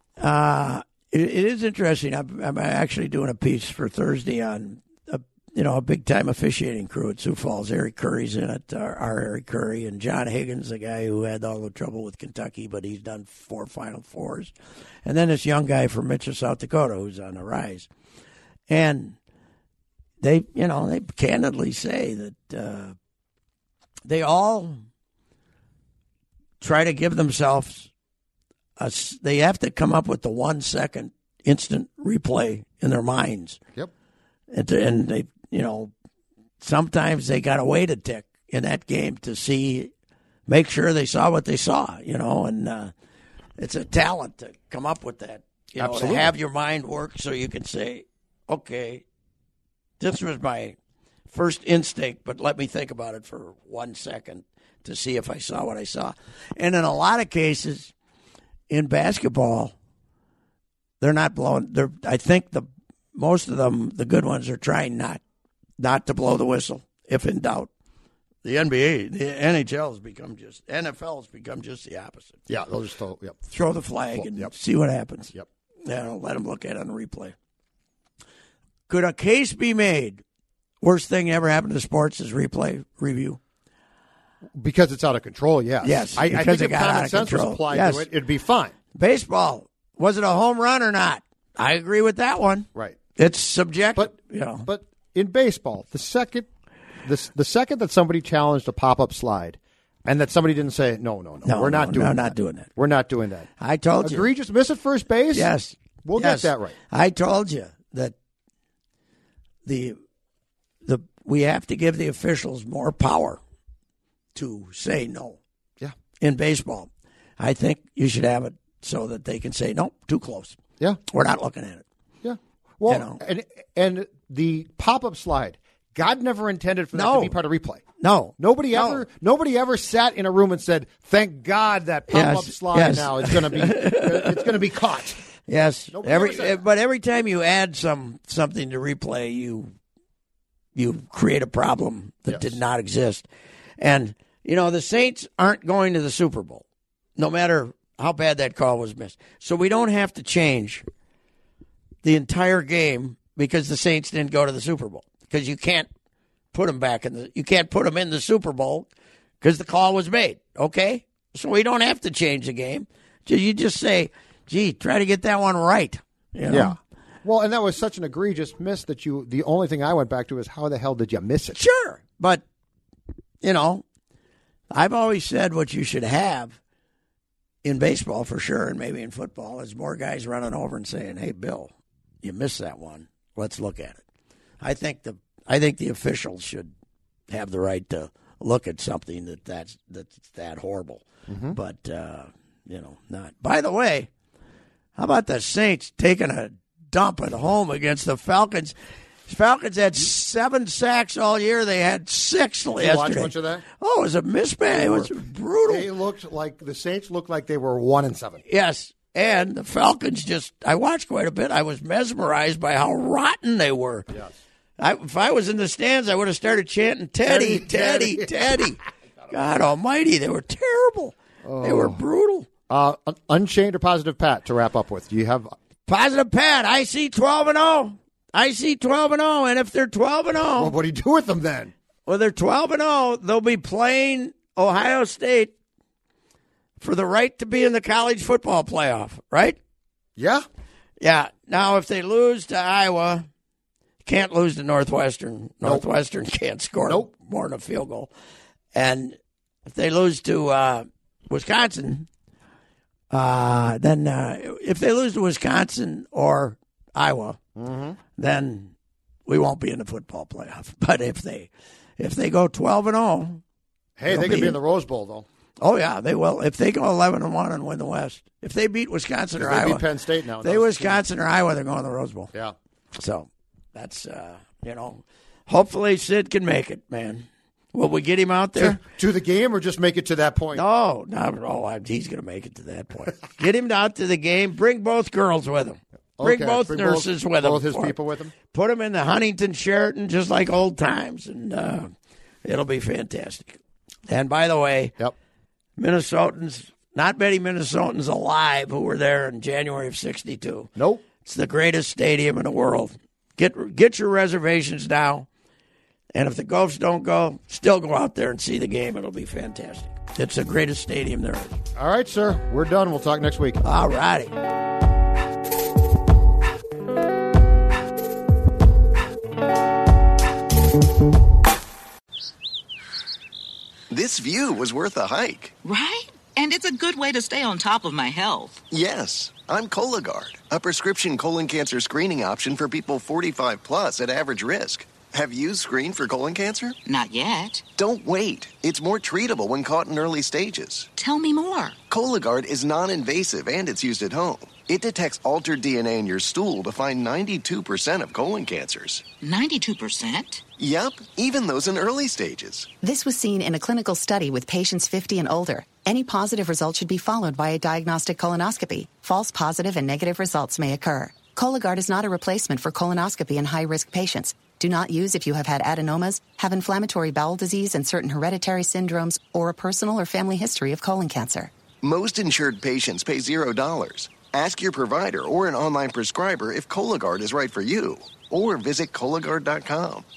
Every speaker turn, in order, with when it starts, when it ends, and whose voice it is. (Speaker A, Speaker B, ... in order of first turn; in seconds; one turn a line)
Speaker A: 0.2-14.5
Speaker A: 15.1-17.9
Speaker A: 18.7-19.2
Speaker A: 20.2-22.9
Speaker A: 24.1-24.8
Speaker A: 26.6-27.9
Speaker A: 28.8-33.6
Speaker A: 34.5-35.9
Speaker A: 36.6-39.9
Speaker A: 40.5-42.9
Speaker A: 43.6-49.0
Speaker B: 45.8-46.3
Speaker A: 50.0-50.8
Speaker A: 51.3-57.9
Speaker A: 58.7-59.7
Speaker A: 61.0-65.2
Speaker A: 65.8-67.7
Speaker A: 68.4-72.4
Speaker B: 72.5-73.5
Speaker A: 73.5-77.3
Speaker B: 74.1-74.5
Speaker A: 78.9-80.2
Speaker A: 80.8-83.4
Speaker B: 84.5-88.7
Speaker A: 85.8-88.1
Speaker A: 88.9-94.7
Speaker B: 92.7-93.0
Speaker B: 94.6-96.5
Speaker B: 97.0-105.5
Speaker A: 101.4-102.7
Speaker A: 103.6-104.3
Speaker A: 105.3-108.1
Speaker B: 106.0-106.8
Speaker A: 109.7-110.0
Speaker A: 110.8-113.4
Speaker A: 114.3-115.4
Speaker A: 116.2-121.8
Speaker B: 122.2-127.8
Speaker A: 122.9-123.2
Speaker A: 126.9-127.4
Speaker A: 128.0-129.1
Speaker B: 128.4-135.2
Speaker A: 132.1-134.5
Speaker A: 135.5-139.7
Speaker B: 135.9-136.6
Speaker A: 140.7-143.3
Speaker B: 142.3-142.6
Speaker A: 143.8-146.6
Speaker A: 147.2-150.8
Speaker A: 152.0-155.9
Speaker A: 156.5-158.9
Speaker A: 159.4-166.7
Speaker B: 166.5-171.6
Speaker A: 171.5-172.4
Speaker A: 173.4-173.8
Speaker A: 174.7-176.6
Speaker A: 177.6-184.0
Speaker A: 184.6-186.7
Speaker A: 187.3-194.1
Speaker B: 191.3-191.6
Speaker A: 194.9-198.7
Speaker A: 199.3-205.9
Speaker B: 202.8-203.7
Speaker B: 204.7-208.4
Speaker A: 208.5-214.1
Speaker A: 214.8-222.5
Speaker B: 217.2-218.5
Speaker B: 221.4-222.0
Speaker B: 222.7-225.6
Speaker A: 225.9-230.8
Speaker B: 230.6-231.7
Speaker A: 232.1-235.5
Speaker A: 236.8-239.6
Speaker B: 240.2-240.4
Speaker A: 241.0-243.3
Speaker A: 244.1-248.1
Speaker A: 248.7-252.1
Speaker A: 253.1-257.4
Speaker B: 257.6-258.0
Speaker A: 258.2-258.7
Speaker A: 259.3-263.4
Speaker B: 264.0-265.3
Speaker A: 264.1-264.6
Speaker A: 265.6-269.8
Speaker B: 269.4-271.0
Speaker A: 270.4-272.3
Speaker A: 272.9-278.8
Speaker B: 278.6-280.6
Speaker A: 280.6-291.9
Speaker B: 286.2-288.3
Speaker A: 292.4-294.9
Speaker A: 295.8-305.3
Speaker B: 300.8-301.0
Speaker A: 306.1-311.6
Speaker B: 311.8-313.6
Speaker A: 313.6-314.3
Speaker C: 323.9-325.6
Speaker D: 325.6-328.6
Speaker C: 328.7-336.8
Speaker D: 336.9-337.6
Speaker C: 337.8-340.9
Speaker D: 341.0-341.8
Speaker C: 341.9-349.1
Speaker D: 349.2-350.4
Speaker C: 350.6-352.7
Speaker E: 352.8-371.5
Speaker C: 371.8-380.1